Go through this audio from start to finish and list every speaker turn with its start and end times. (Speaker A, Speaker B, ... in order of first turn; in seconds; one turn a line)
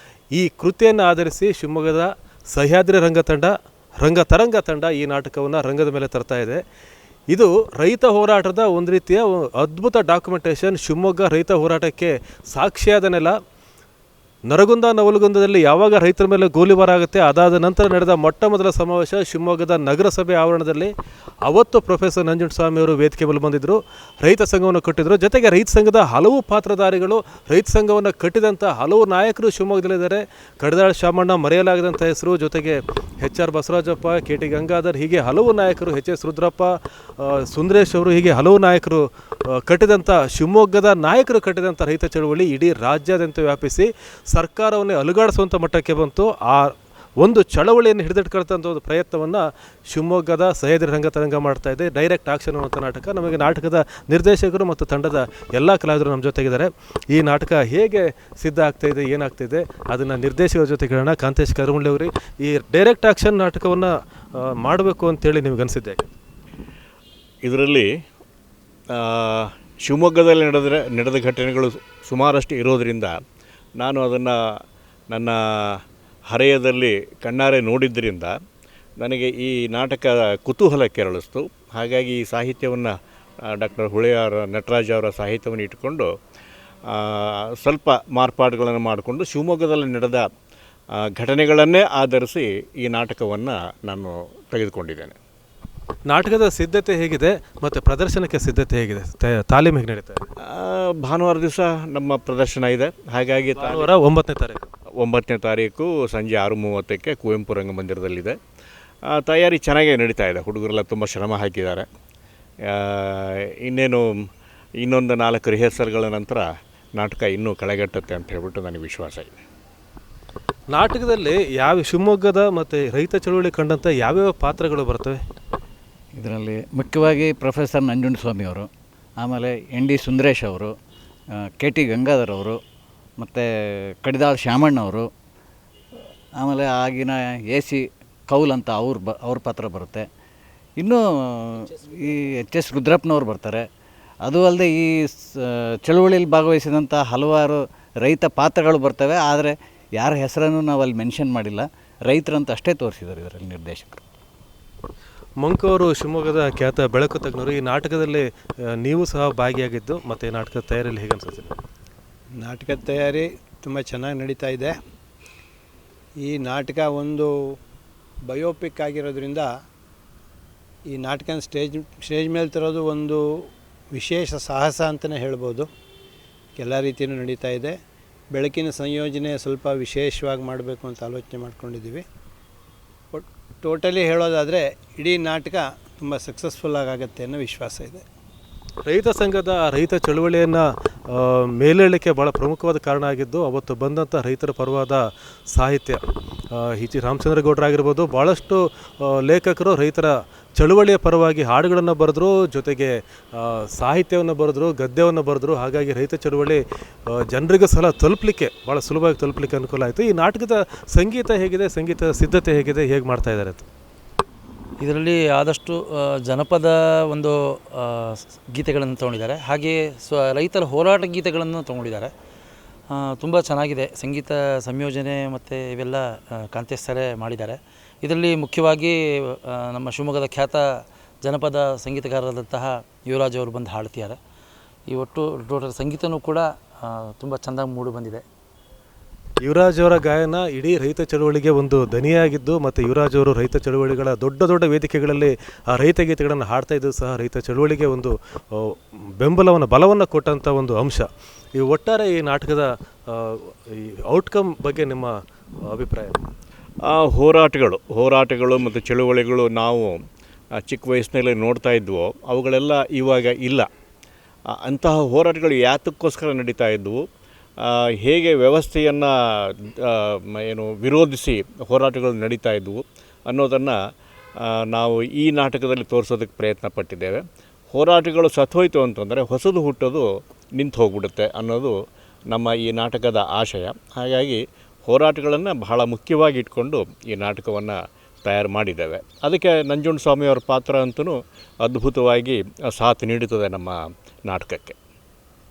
Speaker A: 0.3-6.6
Speaker A: 7.3-13.3
Speaker A: 14.5-66.1
Speaker B: 67.4-67.9
Speaker B: 68.9-73.2
Speaker B: 73.8-74.3
Speaker B: 75.1-78.3
Speaker B: 79.0-82.9
Speaker B: 83.4-86.1
Speaker B: 86.9-90.2
Speaker B: 91.0-95.2
Speaker A: 96.1-100.3
Speaker B: 100.4-103.9
Speaker A: 103.5-104.7
Speaker B: 105.0-108.4
Speaker B: 109.1-111.9
Speaker B: 112.7-114.1
Speaker B: 114.8-119.3
Speaker A: 120.7-125.2
Speaker C: 126.2-128.7
Speaker C: 129.2-130.7
Speaker C: 131.4-132.6
Speaker C: 133.2-135.1
Speaker C: 136.4-140.1
Speaker C: 140.8-143.6
Speaker C: 144.2-154.0
Speaker A: 155.4-161.5
Speaker D: 162.4-164.8
Speaker D: 166.2-167.3
Speaker D: 168.3-169.5
Speaker D: 170.9-173.2
Speaker D: 173.9-175.7
Speaker D: 176.6-177.7
Speaker D: 178.3-182.0
Speaker D: 183.1-188.0
Speaker A: 188.8-196.0
Speaker A: 196.5-213.7
Speaker E: 214.8-222.1
Speaker E: 222.9-230.7
Speaker E: 231.2-234.2
Speaker E: 234.9-238.2
Speaker A: 239.4-256.2
Speaker B: 256.8-260.0
Speaker B: 260.6-263.7
Speaker B: 264.6-267.0
Speaker B: 267.6-273.8
Speaker B: 274.4-281.7
Speaker B: 282.3-294.8